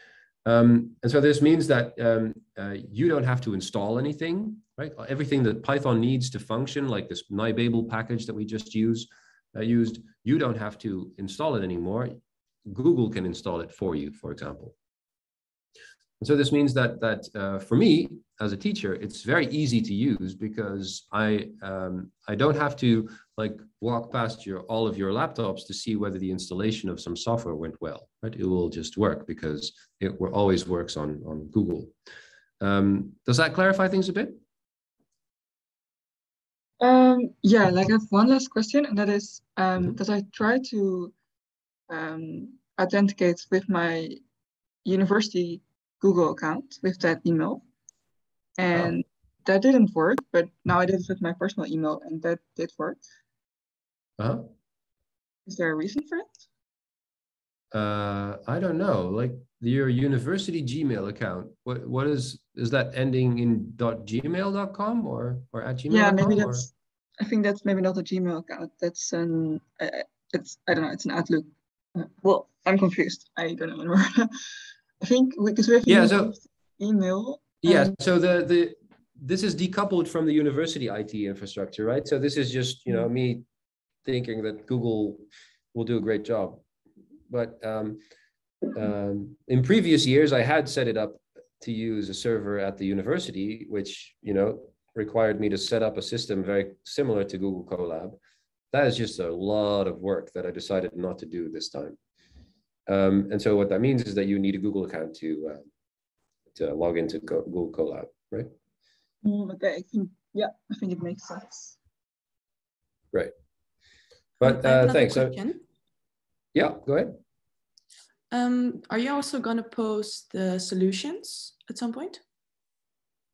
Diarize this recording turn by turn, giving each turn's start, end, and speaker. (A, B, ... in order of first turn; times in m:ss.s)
0:00.4-0:14.7 A
0:16.2-0:31.9 A
0:32.6-0:34.4 A
0:36.8-0:41.1 B
0:41.9-0:44.2 B
0:44.8-0:47.6 B
0:48.6-0:53.0 B
0:54.2-0:54.5 A
0:55.5-0:56.3 B
0:57.7-1:06.7 A
1:05.9-1:17.9 B
1:15.9-1:16.3 A
1:17.6-1:23.4 A
1:24.0-1:26.6 A
1:27.3-1:28.0 A
1:28.7-1:38.2 A
1:38.7-1:42.0 A
1:42.9-1:45.6 A
1:46.5-1:48.5 A
1:49.2-1:51.8 B
1:54.4-1:55.4 A
1:54.4-1:55.6 C
1:56.5-1:57.2 A
1:58.3-2:02.2 C